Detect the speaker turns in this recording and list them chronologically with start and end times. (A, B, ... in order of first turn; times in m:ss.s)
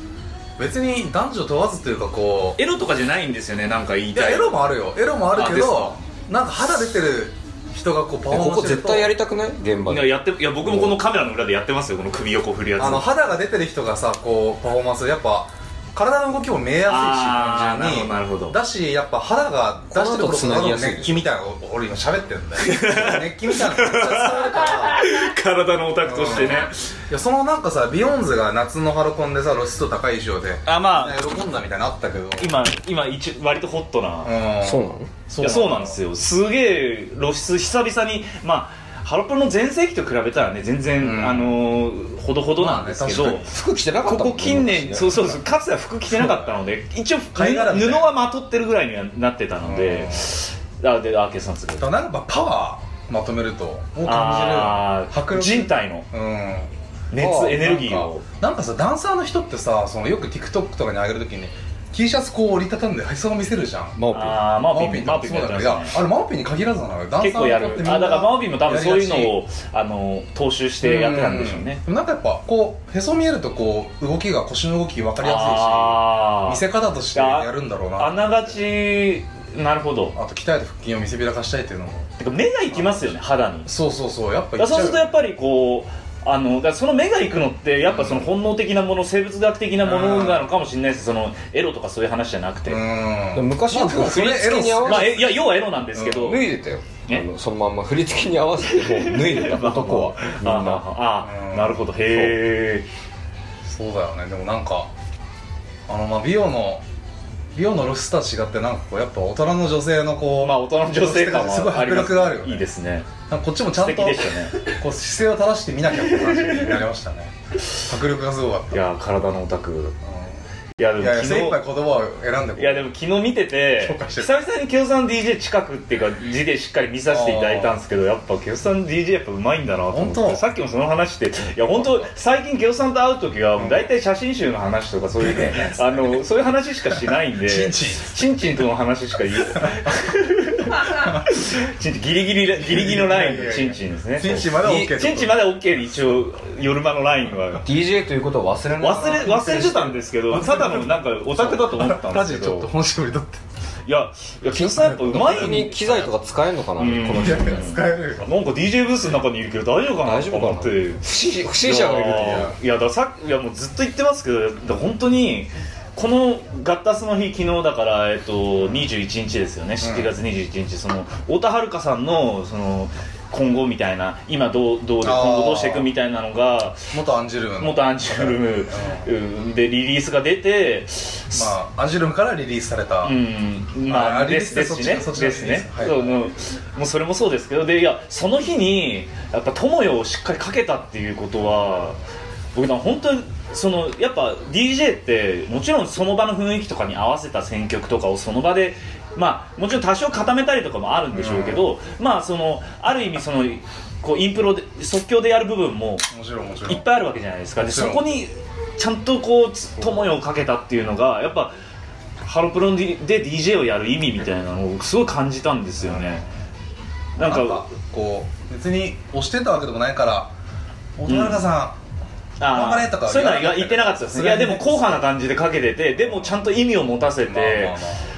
0:00.6-0:02.6 A
0:02.6-0:04.6 B
0:04.1-0:09.1 A
0:05.4-0:06.0 B
0:08.3-0:11.0 C
0:09.9-0:13.0 B
0:12.8-0:25.1 A
0:16.9-0:18.6 B
0:19.9-0:21.2 C
0:22.6-0:27.0 B
0:26.0-0:32.6 A
0:30.7-0:31.2 B
0:32.4-0:34.3 B
0:34.2-0:36.0 A
0:34.6-0:35.1 C
0:35.4-0:43.5 B
0:41.0-0:41.7 A
0:42.6-0:43.5 A
0:43.4-0:45.4 C
0:44.0-0:51.9 B
0:46.1-0:46.6 A
0:47.3-0:48.2 A
0:49.6-0:50.4 A
0:51.8-1:09.3 A
0:54.0-0:56.1 B
0:57.1-0:58.2 B
0:57.2-0:57.6 C
1:04.0-1:04.4 C
1:04.1-1:06.0 B
1:07.2-1:11.8 B
1:10.8-1:18.6 A
1:15.2-1:16.6 B
1:17.2-1:20.2 B
1:20.2-1:22.1 A
1:22.2-1:23.7 B
1:22.7-1:25.1 A
1:24.6-1:32.8 B
1:27.9-1:28.3 A
1:29.8-1:30.5 A
1:32.7-1:35.3 A
1:33.3-1:35.2 C
1:34.8-1:36.4 B
1:36.0-1:36.3 A
1:36.1-1:40.8 C
1:38.6-1:42.9 B
1:41.2-1:42.4 A
1:43.6-1:44.9 A
1:45.9-1:46.8 A
1:47.6-1:52.7 A
1:50.4-1:53.1 B
1:53.3-1:58.8 A
1:53.8-1:54.7 B
1:56.3-1:56.7 B
1:58.7-2:00.0 B
2:00.0-2:00.4 A
2:00.8-2:01.6 B
2:01.0-2:02.9 A
2:02.6-2:27.7 B
2:03.8-2:04.4 A
2:07.1-2:07.8 A
2:09.9-2:10.4 A
2:11.8-2:12.1 A
2:13.6-2:13.9 A
2:15.2-2:16.2 A
2:16.9-2:18.2 A
2:21.0-2:21.3 A
2:22.6-2:25.6 A
2:24.6-2:24.9 C
2:27.6-2:29.9 C
2:28.8-2:32.7 B
2:28.9-2:33.4 A
2:33.9-2:36.1 B
2:34.6-2:37.7 C
2:34.8-2:35.6 A
2:36.8-2:41.0 B
2:37.2-2:38.3 A
2:40.0-2:42.6 C
2:41.6-2:56.9 B
2:48.6-2:48.9 A
2:49.8-2:50.1 A
2:55.0-2:55.9 A
2:56.9-2:59.1 A
2:57.6-3:01.5 B
3:01.3-3:03.2 A
3:03.0-3:12.0 B
3:03.9-3:06.2 A
3:12.5-3:26.1 B
3:21.1-3:21.6 A
3:26.1-3:26.8 A
3:26.6-3:31.5 B
3:27.6-3:28.1 A
3:32.2-3:36.2 B
3:35.8-3:36.3 A
3:37.2-3:37.6 B
3:37.2-3:40.3 A
3:41.0-3:41.8 A
3:41.1-3:41.5 B
3:42.4-3:47.8 B
3:42.5-3:45.1 A
3:46.0-3:46.4 A
3:47.3-3:48.1 A